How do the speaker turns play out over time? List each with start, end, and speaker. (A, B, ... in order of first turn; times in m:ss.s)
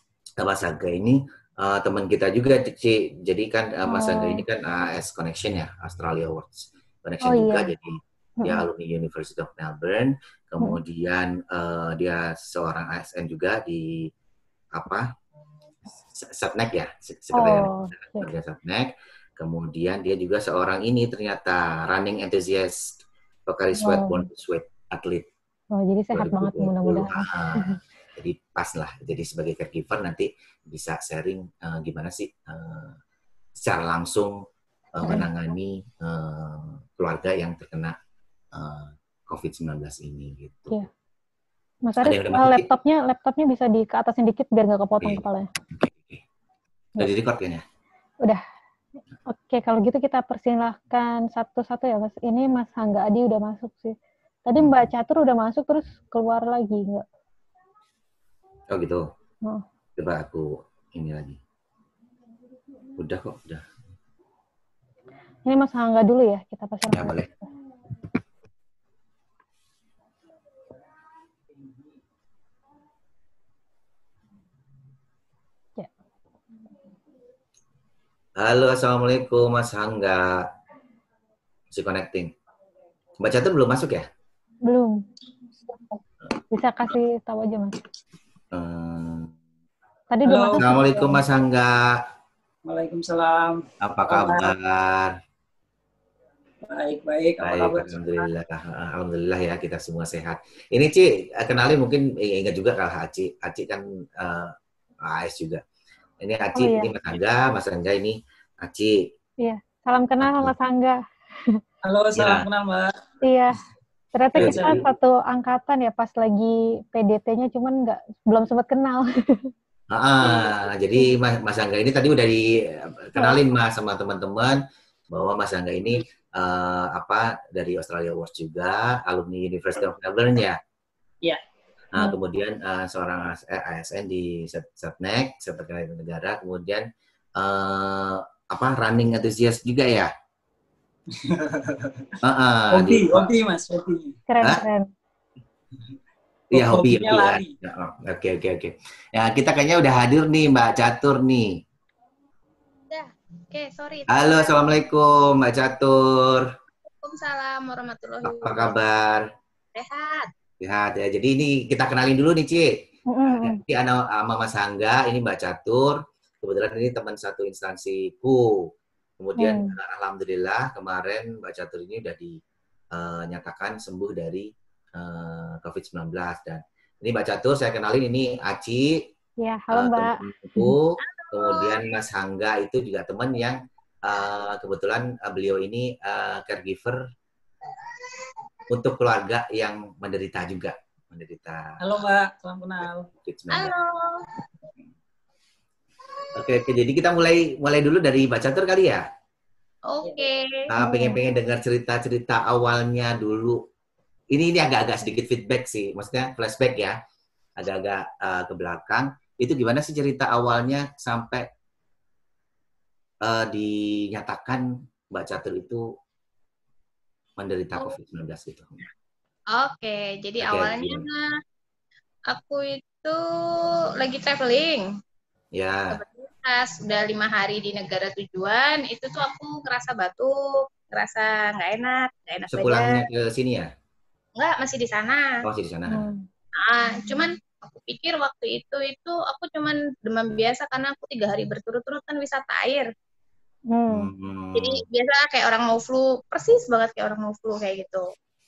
0:00.4-0:14.1 A
0:03.8-0:04.4 B
0:07.2-0:07.7 B
0:08.4-0:08.6 B
0:14.7-0:15.1 A
0:16.1-0:25.3 A
0:17.3-0:18.3 B
0:23.8-0:24.3 B
0:25.7-0:27.8 B
0:26.1-0:33.0 A
0:33.6-0:34.4 A
0:34.9-0:38.0 A
0:38.5-0:40.8 A
0:41.8-0:45.5 B
0:42.0-0:42.7 A
0:45.7-0:46.2 A
0:47.0-0:47.6 A
0:49.3-0:57.0 B
0:58.7-0:59.0 A
1:00.0-1:01.4 A
1:03.0-1:03.6 A
1:05.4-1:07.3 B
1:06.9-1:07.3 A
1:18.4-1:20.4 A
1:21.7-1:22.3 A
1:23.2-1:24.0 A
1:24.6-1:25.0 B
1:26.5-1:27.8 B
1:28.5-1:29.3 A
1:30.1-1:31.2 B
1:30.2-1:31.0 C
1:30.6-1:32.0 A
1:32.6-1:34.5 C
1:33.8-1:35.1 A
1:36.6-1:38.3 C
1:37.4-1:45.6 A
1:46.2-1:49.0 A
1:46.5-1:46.9 B
1:49.4-1:51.6 B
1:50.2-1:50.5 A
1:51.8-1:53.0 C
1:52.2-1:52.4 A
1:53.2-1:53.6 B
1:54.1-1:59.5 B
1:54.3-1:54.8 C
1:54.4-1:54.8 A
1:59.9-2:10.6 A
2:00.2-2:00.5 C
2:11.9-2:20.1 A
2:21.1-2:22.2 C
2:22.2-2:23.3 A
2:22.7-2:24.2 C
2:24.3-2:24.9 B
2:26.5-2:27.5 C
2:26.5-2:31.5 A
2:32.9-2:34.7 D
2:34.1-2:36.5 A
2:37.0-2:38.7 D
2:38.2-2:39.2 A
2:39.7-2:40.3 D
2:40.6-2:42.7 A
2:43.1-2:43.6 B
2:43.3-2:52.4 A
2:49.4-2:49.7 B
2:52.9-2:59.1 A
2:59.4-3:00.7 B
2:59.7-3:07.0 A
3:01.1-3:01.9 D
3:08.7-3:11.8 A
3:11.8-3:13.1 C
3:13.2-3:13.7 A
3:13.5-3:14.3 D
3:16.3-3:19.0 A
3:19.9-3:20.7 D
3:20.7-3:23.6 A
3:20.8-3:21.2 B
3:24.3-3:27.0 A
3:27.6-3:31.5 A
3:33.2-3:35.8 A
3:37.4-3:38.8 A
3:39.5-3:41.3 D
3:40.4-3:41.0 A
3:42.3-3:44.9 D
3:45.6-3:46.0 A
3:45.9-3:53.0 D
3:52.4-3:53.7 A
3:54.4-3:55.3 D
3:55.4-3:56.1 A
3:55.9-3:56.3 B
3:56.6-4:02.9 D
4:03.7-4:04.1 B
4:03.9-4:04.8 A
4:04.6-4:08.0 D